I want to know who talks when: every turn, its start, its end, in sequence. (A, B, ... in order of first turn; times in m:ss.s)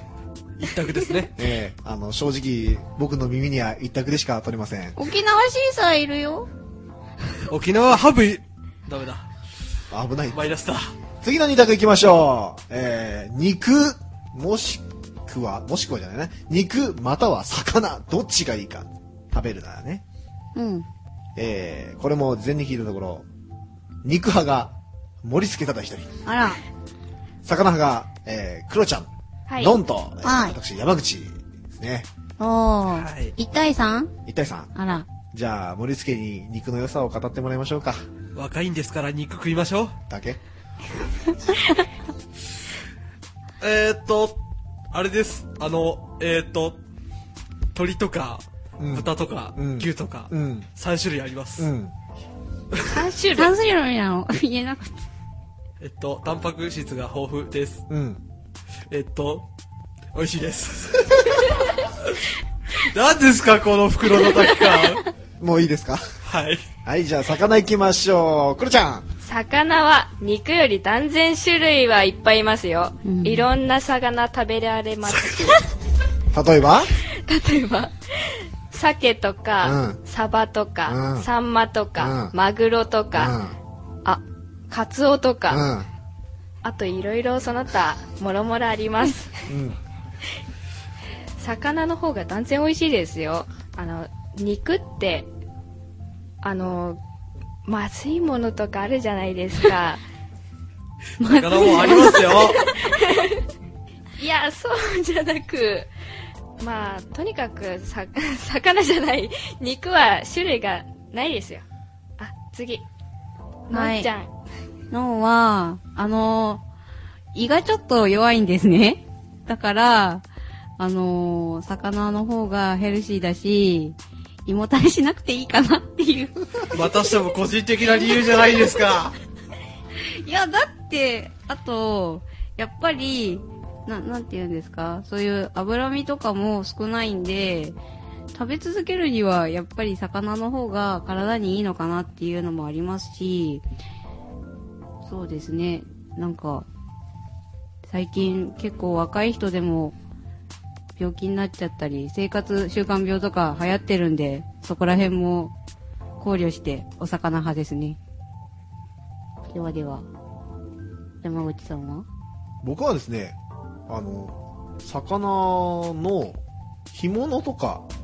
0:00.6-0:01.3 A
0:01.4-0:05.0 B
0:05.0-0:06.5 C
0:07.5-0:09.3 A
0:09.9-0:10.5 B
0:10.3-0:10.9 A
0:11.2-0:20.0 B
0:20.6-0:20.9 C
0:21.4-0:23.3 B
0:24.0-0:26.1 B
0:26.2-0:26.6 C
0:27.4-0:32.1 B
0:29.5-0:29.8 D
0:30.2-0:30.6 C
0:32.4-0:34.1 C
0:32.9-0:33.3 A
0:34.3-0:34.7 B
0:34.8-0:35.1 C
0:35.3-0:38.0 B
0:38.4-0:40.0 A
0:40.1-0:40.4 B
0:43.6-0:44.4 A
0:44.9-0:46.8 A
0:47.7-0:51.7 A
0:48.8-0:50.7 B
0:51.6-0:51.9 B
0:52.8-0:53.5 D
0:53.4-0:55.1 C
0:55.8-0:57.8 A
0:57.9-0:58.2 B
0:58.9-0:59.5 A
1:00.1-1:02.2 A
1:02.8-1:05.1 A
1:05.4-1:06.0 B
1:06.2-1:06.6 A
1:06.8-1:09.1 B
1:09.2-1:15.7 D
1:13.0-1:13.5 C
1:15.1-1:15.7 A
1:16.3-1:16.9 B
1:17.2-1:23.3 D
1:19.6-1:20.0 B
1:20.9-1:21.3 B
1:22.0-1:22.3 B
1:23.1-1:23.6 B
1:24.0-1:25.6 D
1:25.5-1:25.9 B
1:26.6-1:29.3 D
1:29.5-1:29.8 B
1:31.4-1:35.3 D
1:36.4-1:37.0 D
1:37.7-1:40.0 D
1:41.2-1:42.5 C
1:41.3-1:42.6 A
1:42.4-1:43.4 D
1:44.2-1:45.9 D
1:46.6-1:51.6 D
1:52.2-1:52.9 D
1:53.7-1:54.3 D
1:53.7-1:54.1 C
1:54.9-1:56.6 C
1:57.3-2:00.2 C
2:00.8-2:06.4 C
2:06.7-2:09.2 A
2:10.2-2:17.8 C
2:18.3-2:23.6 C
2:25.0-2:26.7 C
2:27.9-2:30.0 C
2:31.0-2:35.5 C
2:36.2-2:38.0 C
2:39.5-2:40.1 C
2:41.2-2:42.1 C
2:42.6-2:43.4 B
2:43.9-2:47.9 B